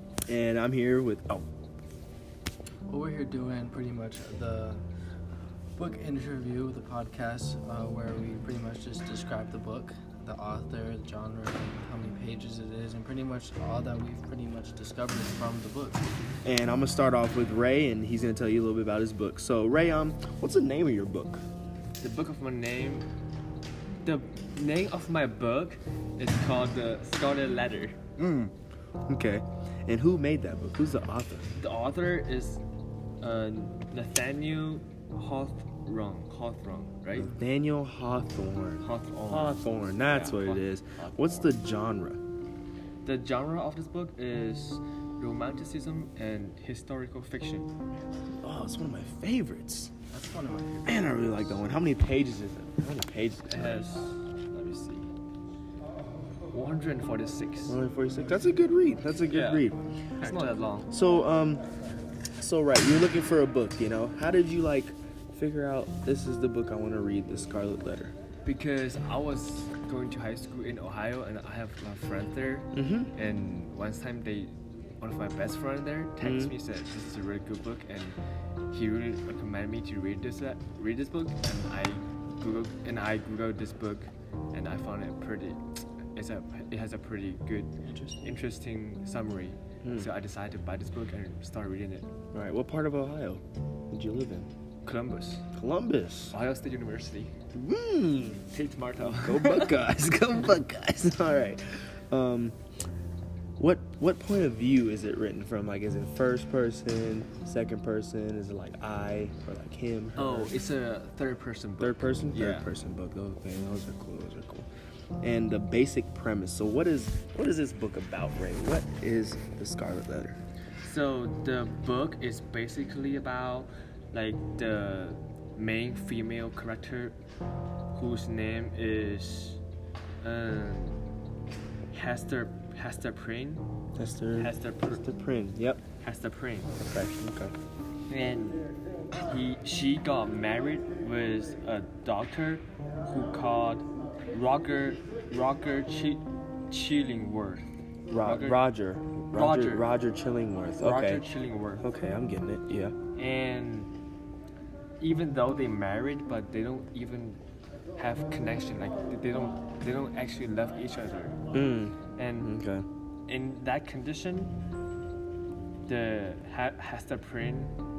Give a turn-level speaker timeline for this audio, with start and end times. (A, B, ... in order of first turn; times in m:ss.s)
0:00.3-0:01.5 A
0:02.9-0:04.8 B
0:05.8-0:16.1 B
0:16.4-0:21.4 A
0:22.0-0:23.1 C
0:24.0-0:28.2 C
0:28.2-0:28.5 A
0:29.1-0:31.5 A
0:31.5-0:32.6 C
0:33.2-0:37.3 C
0:37.1-0:42.2 A
0:38.8-0:41.4 C
0:43.0-0:47.7 C
0:48.4-0:49.9 A
0:50.1-0:51.2 B
0:50.8-0:53.9 A
0:53.5-0:55.1 C
0:56.5-0:57.8 C
0:57.7-0:59.8 A
0:59.3-1:00.9 C
1:00.9-1:01.6 A
1:02.4-1:08.1 A
1:08.4-1:18.2 C
1:12.7-1:13.1 A
1:16.2-1:16.5 A
1:18.7-1:25.6 C
1:26.2-1:32.1 C
1:27.8-1:28.4 B
1:29.8-1:30.1 A
1:32.3-1:34.5 A
1:34.8-1:35.4 C
1:35.5-1:36.4 A
1:36.3-1:37.3 C
1:37.5-1:38.4 A
1:38.5-1:39.8 C
1:39.0-1:42.6 A
1:43.6-1:50.6 A
1:50.2-1:52.7 C
1:51.8-1:54.7 A
1:55.2-2:00.4 A
2:00.8-2:07.2 C
2:07.9-2:09.6 C
2:10.2-2:11.0 C
2:11.9-2:13.6 C
2:14.0-2:15.8 A
2:14.4-2:15.0 C
2:16.0-2:16.7 C
2:16.8-2:17.5 A
2:18.1-2:18.6 C
2:19.1-2:27.6 C
2:28.1-2:31.2 A
2:28.2-2:28.6 C
2:29.3-2:29.9 C
2:30.8-2:31.8 C
2:31.8-2:33.0 A
2:33.1-2:33.9 C
2:35.0-2:37.4 C
2:38.0-2:41.4 C
2:41.5-2:42.8 A
2:42.2-2:42.5 C
2:43.3-2:44.6 C
2:45.9-2:47.8 C